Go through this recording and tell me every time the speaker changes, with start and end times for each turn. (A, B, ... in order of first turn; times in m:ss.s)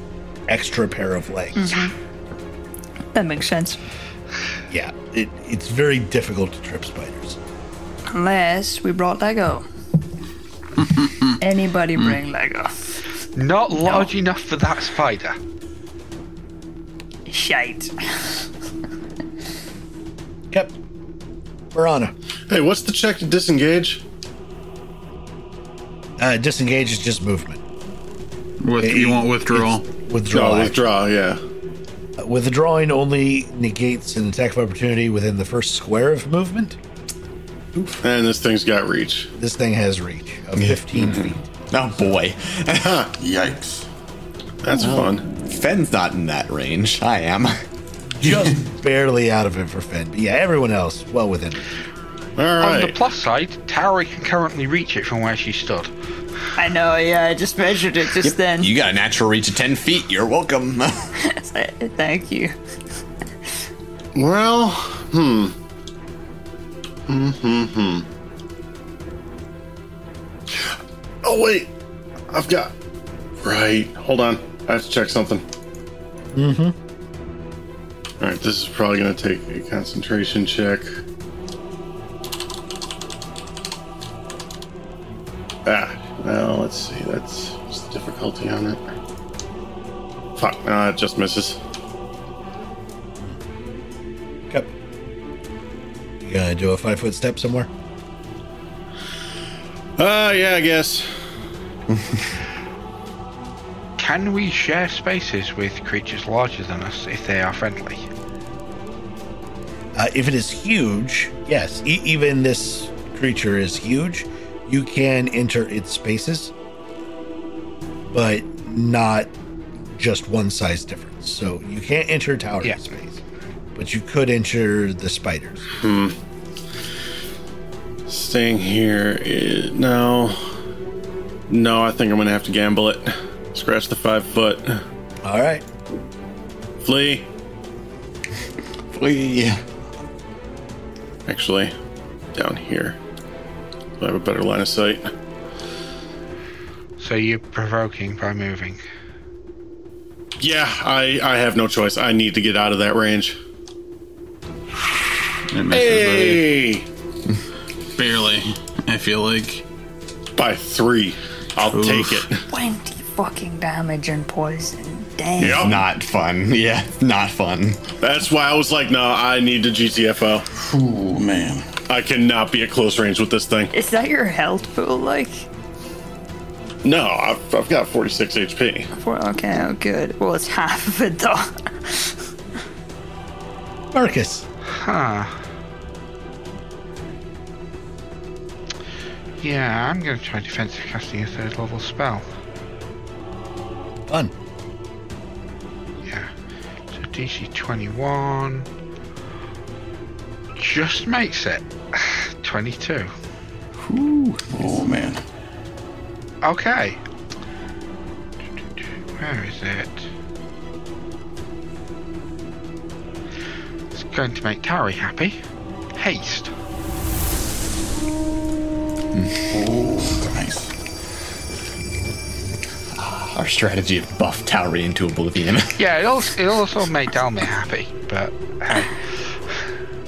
0:00.5-0:01.8 A
0:01.6-0:01.9 B
0:03.1-0:03.8 B
0:04.7-0:07.4 A
0:08.1-0:09.7 B
0:11.4-0:13.0 B
0:13.4-0:15.4 C
0:13.7-0:14.1 B
0:17.3-0:18.5 B
0:21.7-0:22.1 A
0:22.5-0:24.0 D
0:26.2-0:27.6 A
0:28.6-0:29.8 E
0:28.8-0:30.8 A
0:30.3-0:31.4 D
0:32.2-0:36.8 A
0:38.0-0:39.3 D
0:39.4-0:41.4 A
0:40.6-0:43.0 F
0:43.1-0:43.9 G
0:44.6-0:45.2 D
0:44.7-0:47.6 F
0:48.1-0:51.6 A
0:52.4-0:53.0 D
0:52.6-0:55.9 C
0:56.6-0:58.7 B
0:58.2-1:01.1 F
1:01.2-1:02.5 B
1:04.1-1:05.5 D
1:07.1-1:08.1 D
1:10.5-1:11.7 D
1:12.3-1:12.7 D
1:13.4-1:15.4 D
1:16.3-1:16.8 A
1:18.2-1:21.0 D
1:25.6-1:28.8 D
1:30.4-1:31.6 D
1:36.2-1:37.7 A
1:40.0-1:41.1 D
1:44.0-1:48.1 C
1:49.9-1:56.5 A
1:58.1-1:59.3 A
1:59.9-2:03.2 A
2:03.7-2:05.6 A
2:05.8-2:06.1 D
2:08.1-2:10.4 D
2:11.5-2:14.8 D
2:15.2-2:15.6 A
2:16.8-2:17.3 D
2:18.9-2:19.6 F
2:21.2-2:21.7 D
2:22.3-2:23.0 D
2:24.0-2:25.1 D
2:27.0-2:28.8 C
2:30.4-2:33.4 D
2:35.5-2:36.5 E
2:35.7-2:36.8 D
2:38.0-2:39.6 E
2:40.4-2:42.4 D
2:41.6-2:42.2 E
2:42.5-2:45.8 B
2:45.4-2:45.8 D
2:45.4-2:47.8 F
2:48.0-2:50.4 D
2:50.6-2:51.6 G
2:51.2-2:51.5 E
2:51.9-2:53.7 D
2:53.7-2:55.5 B
2:56.8-2:58.9 D
2:58.9-3:02.2 B
3:03.9-3:04.4 A
3:04.7-3:05.4 C
3:09.4-3:12.3 C
3:14.1-3:14.3 A
3:16.0-3:16.3 C
3:16.9-3:18.7 C
3:20.6-3:23.1 C
3:23.8-3:25.2 G
3:26.4-3:27.0 C
3:29.2-3:30.1 C
3:33.9-3:35.4 C
3:36.0-3:36.5 C
3:39.1-3:39.4 F
3:39.5-3:40.7 G
3:42.9-3:45.8 F
3:45.8-3:49.2 C